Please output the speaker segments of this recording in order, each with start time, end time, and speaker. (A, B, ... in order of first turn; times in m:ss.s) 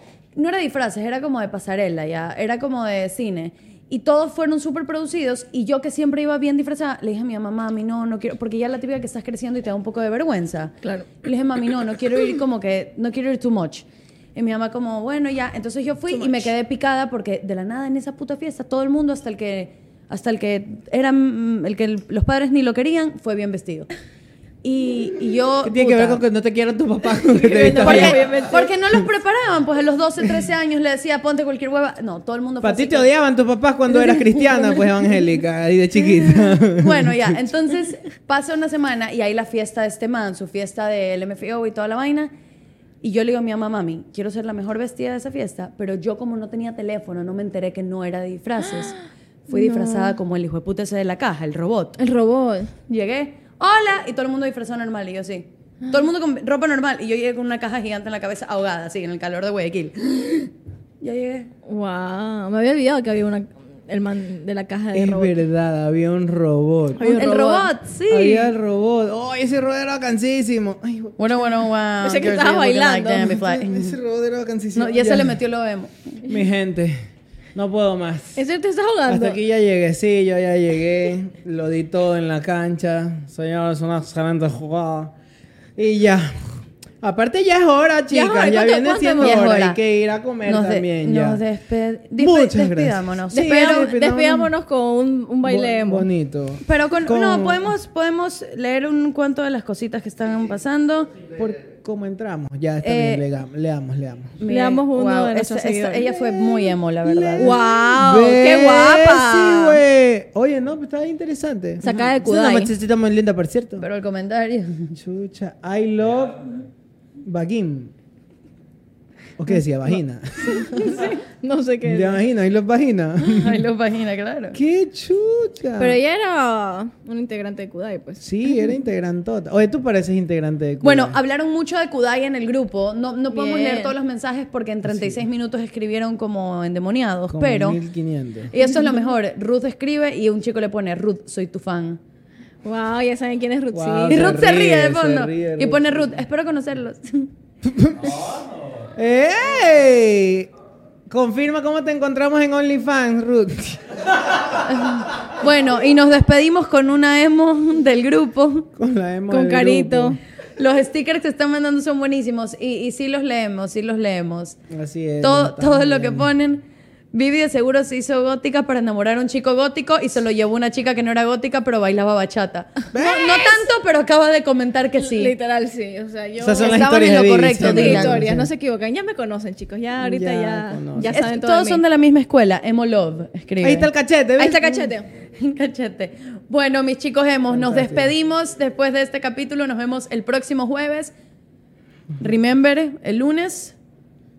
0:00.4-0:23.9 A
0:10.8-0:11.2 B
0:16.1-0:16.5 B
0:24.6-0:26.2 A
0:25.6-0:28.3 C
0:27.3-0:28.7 B
0:27.8-0:33.1 A
0:32.6-0:37.4 C
0:33.9-0:35.2 A
0:36.0-0:42.3 A
0:43.0-0:52.0 A
0:49.5-0:50.2 B
0:52.0-0:52.7 B
0:52.9-1:01.5 A
1:01.7-1:05.4 B
1:04.9-1:07.2 C
1:07.0-1:07.7 B
1:07.1-1:08.5 A
1:08.1-1:11.2 C
1:11.2-1:14.0 A
1:12.0-1:13.4 B
1:13.4-1:15.4 C
1:14.7-1:16.3 A
1:16.3-1:17.0 C
1:17.6-1:18.4 C
1:18.4-1:19.4 B
1:19.1-1:25.1 C
1:25.8-1:26.4 C
1:27.0-1:31.4 C
1:28.1-1:29.4 B
1:29.2-1:29.8 A
1:30.4-1:34.0 A
1:32.2-1:34.5 C
1:33.3-1:36.1 B
1:35.4-1:37.7 C
1:36.6-1:41.6 A
1:41.6-1:44.4 C
1:42.8-1:43.1 B
1:42.9-1:43.2 A
1:44.4-1:47.5 A
1:44.5-1:46.1 B
1:47.0-1:53.8 C
1:47.4-1:49.8 B
1:51.8-1:52.7 B
1:53.8-1:55.0 A
1:55.0-1:56.6 C
1:57.2-1:57.9 C
1:59.4-2:01.1 C
2:00.5-2:02.2 B
2:01.8-2:03.7 C
2:03.2-2:04.6 A
2:04.5-2:06.0 C
2:05.8-2:08.7 B
2:08.2-2:11.2 C
2:10.8-2:17.8 A
2:13.3-2:14.0 B
2:14.8-2:15.2 C
2:17.3-2:18.5 C
2:18.5-2:22.0 A
2:22.6-2:24.4 B
2:23.7-2:26.1 C
2:24.1-2:27.3 A
2:27.6-2:28.2 C
2:29.0-2:30.5 C
2:31.1-2:34.0 C
2:34.6-2:38.7 A
2:38.8-2:40.2 C
2:39.3-2:40.2 B
2:40.6-2:44.6 A
2:44.7-2:46.3 C
2:45.2-2:55.4 A
2:52.9-2:53.6 C
2:55.0-3:01.8 B
2:56.4-2:58.5 C
2:56.6-2:58.2 A
3:00.0-3:01.3 C
3:01.1-3:03.9 A
3:03.6-3:04.8 C
3:04.4-3:05.1 B
3:04.6-3:04.8 A
3:05.4-3:11.1 A
3:07.5-3:08.1 C
3:12.2-3:13.8 A